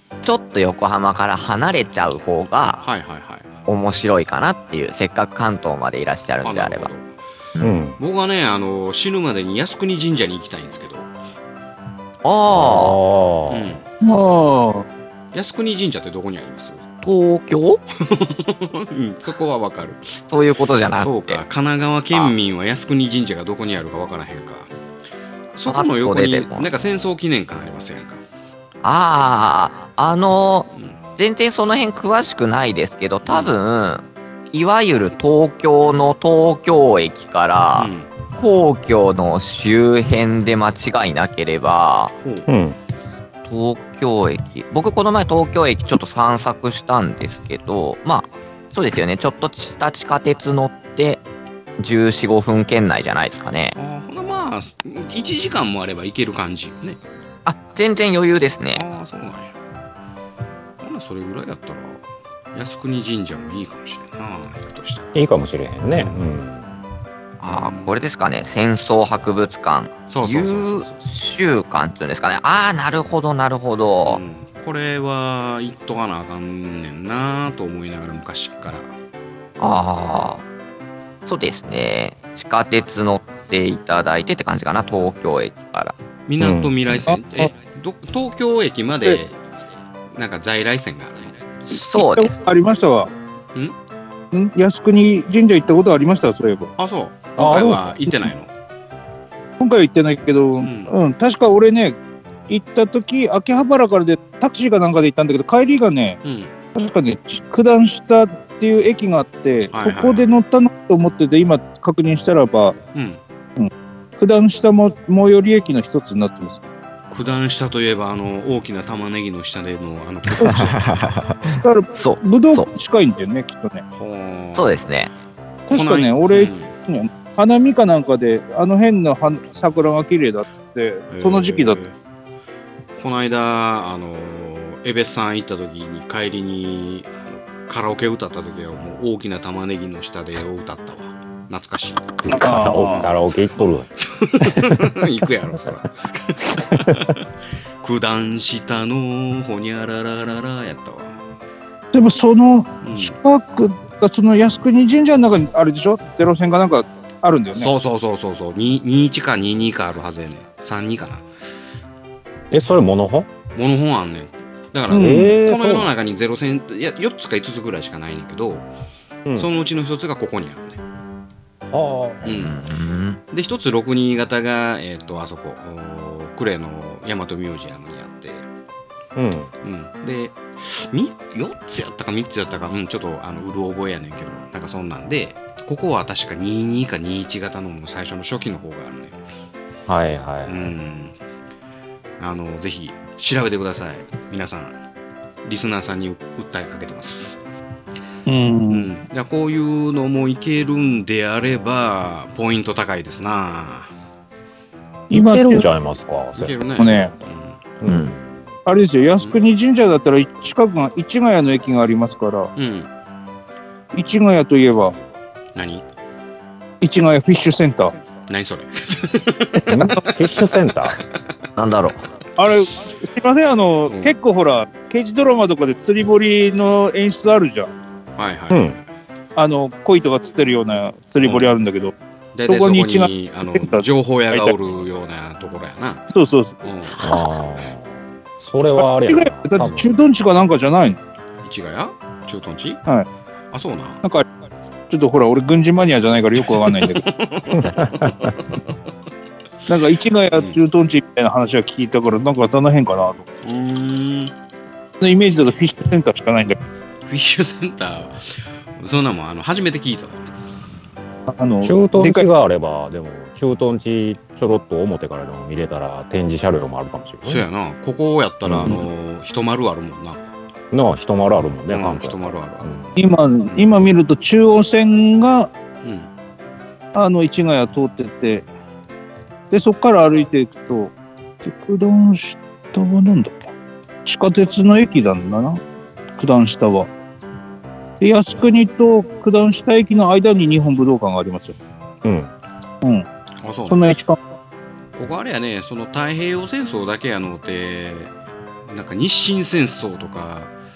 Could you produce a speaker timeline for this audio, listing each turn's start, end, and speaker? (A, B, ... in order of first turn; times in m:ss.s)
0:00.2-0:02.8 A
0:02.8-0:03.5 B
0:03.7-0:06.9 A
0:06.4-0:07.1 B
0:07.6-0:08.0 C
0:08.0-0:11.1 B
0:12.2-0:13.0 A
0:12.5-0:13.8 C
0:13.5-0:13.8 B
0:14.0-0:14.8 D
0:15.3-0:16.8 B
0:17.0-0:17.8 A
0:18.0-0:20.2 B
0:20.3-0:21.4 A
0:20.9-0:24.7 B
0:25.5-0:28.2 B
0:25.7-0:26.7 A
0:28.8-0:42.1 A
0:30.7-0:31.0 B
0:33.2-0:33.5 B
0:37.8-0:38.1 B
0:42.2-0:42.5 B
0:42.5-0:42.8 C
0:43.4-0:51.2 A
0:51.8-0:53.7 A
0:53.8-0:57.0 B
0:57.4-0:58.8 A
0:58.7-0:59.6 B
1:00.8-1:05.1 B
1:05.1-1:06.7 C
1:05.9-1:06.2 B
1:07.4-1:14.2 A
1:07.4-1:08.0 B
1:10.1-1:11.1 B
1:14.0-1:18.9 B
1:19.6-1:20.4 A
1:21.2-1:25.9 A
1:26.3-1:29.4 B
1:26.4-1:26.7 C
1:30.1-1:31.4 B
1:31.7-1:32.3 A
1:31.8-1:33.1 D
1:34.3-1:36.7 D
1:36.8-1:38.5 B
1:37.4-1:38.0 C
1:39.6-1:41.9 D
1:40.6-1:40.9 B
1:42.5-1:46.2 D
1:46.2-1:46.5 B
1:46.7-1:52.8 D
1:49.7-1:50.3 B
1:52.9-1:53.2 B
1:53.6-1:56.7 D
1:57.1-2:00.9 B
2:00.4-2:02.7 A
2:01.6-2:03.8 D
2:04.0-2:04.7 B
2:04.6-2:05.1 A
2:05.7-2:06.7 B
2:05.7-2:11.8 D
2:11.1-2:11.9 B
2:13.0-2:23.1 B
2:22.2-2:23.9 C
2:22.4-2:23.1 D
2:24.0-2:27.2 B
2:24.4-2:24.8 C
2:27.8-2:31.2 B
2:31.9-2:37.7 D
2:32.8-2:33.2 B
2:37.6-2:41.2 B
2:42.5-2:43.3 C
2:43.5-2:48.7 B
2:44.9-2:45.3 D
2:44.9-2:45.9 C
2:49.3-2:50.8 B
2:51.7-2:52.3 C
2:52.2-2:52.6 B
2:52.3-2:53.2 A
2:53.3-2:58.4 B
2:59.1-2:59.5 C
2:59.6-3:09.2 B
3:09.9-3:10.7 C
3:10.4-3:11.1 B
3:12.2-3:14.7 B
3:15.4-3:17.4 B
3:18.2-3:18.9 D
3:18.7-3:23.9 B
3:25.1-3:25.7 D
3:25.1-3:26.6 C
3:26.4-3:27.6 B
3:26.8-3:27.1 D
3:27.8-3:28.4 C
3:27.8-3:28.1 A
3:28.6-3:32.5 D
3:32.6-3:32.9 B
3:33.9-3:34.9 D
3:35.5-3:35.8 B
3:36.8-3:37.9 D
3:38.3-3:39.7 B
3:39.7-3:41.0 C
3:41.6-3:42.0 A
3:42.4-3:47.7 D
3:43.9-3:44.1 B
3:48.2-3:48.7 B
3:48.5-3:48.8 C
3:49.4-3:51.9 D
3:51.2-3:51.5 B
3:52.3-3:56.0 B
3:52.5-3:54.5 D
3:56.1-3:56.6 D
3:56.6-3:57.0 B
3:56.9-3:57.3 A
3:57.0-3:59.9 C
3:58.8-4:01.0 D
4:01.4-4:02.8 B
4:03.5-4:04.0 B
4:04.9-4:07.0 D
4:06.4-4:08.5 B
4:07.5-4:08.3 C
4:09.7-4:13.2 D
4:13.4-4:14.3 B
4:15.0-4:16.6 D
4:17.0-4:20.3 B
4:21.3-4:22.2 D
4:21.6-4:27.4 C
4:27.2-4:30.2 B
4:28.4-4:28.9 C
4:30.7-4:32.9 C
4:31.7-4:32.7 B
4:33.0-4:35.5 D
4:33.5-4:33.8 B
4:35.8-4:36.1 B
4:36.9-4:38.4 D
4:39.5-4:40.9 D
4:41.4-4:43.5 D
4:44.0-4:45.6 D
4:46.2-4:46.9 D
4:48.0-4:51.6 D
4:52.0-4:52.3 C
4:53.4-4:53.8 B
4:53.7-4:54.2 D
4:55.0-4:58.1 B
4:58.6-5:00.5 B